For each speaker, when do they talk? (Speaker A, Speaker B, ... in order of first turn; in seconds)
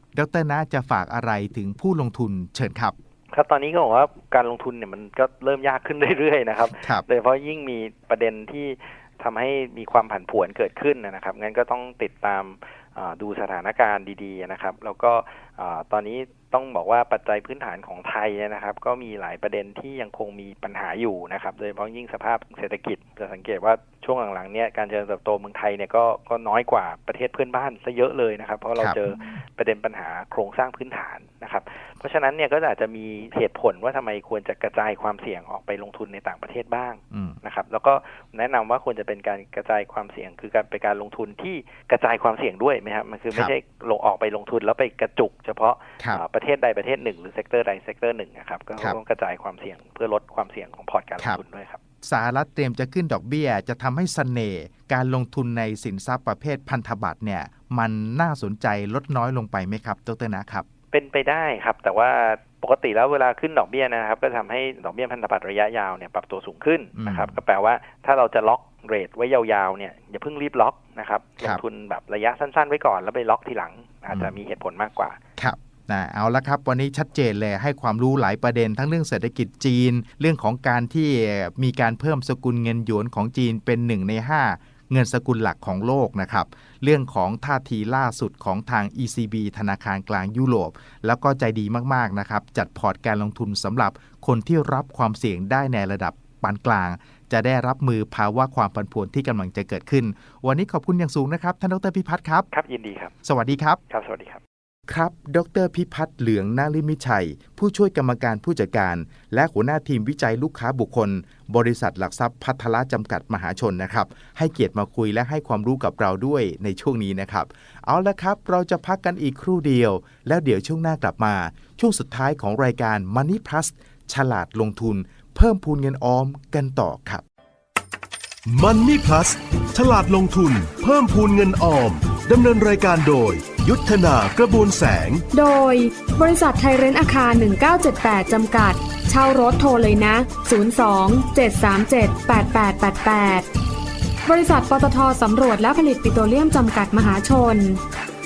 Speaker A: 0.1-2.9, 28.8-29.4, 37.1-37.4, 52.0-60.7, 67.0-67.4, 74.1-74.3, 75.4-102.5, 103.2-103.8, 104.9-127.2
Speaker B: 3.3-51.8, 60.9-75.2, 102.5-103.1, 103.9-104.4
Speaker C: 128.5-135.2
Speaker D: 135.3-143.5, 144.3-147.8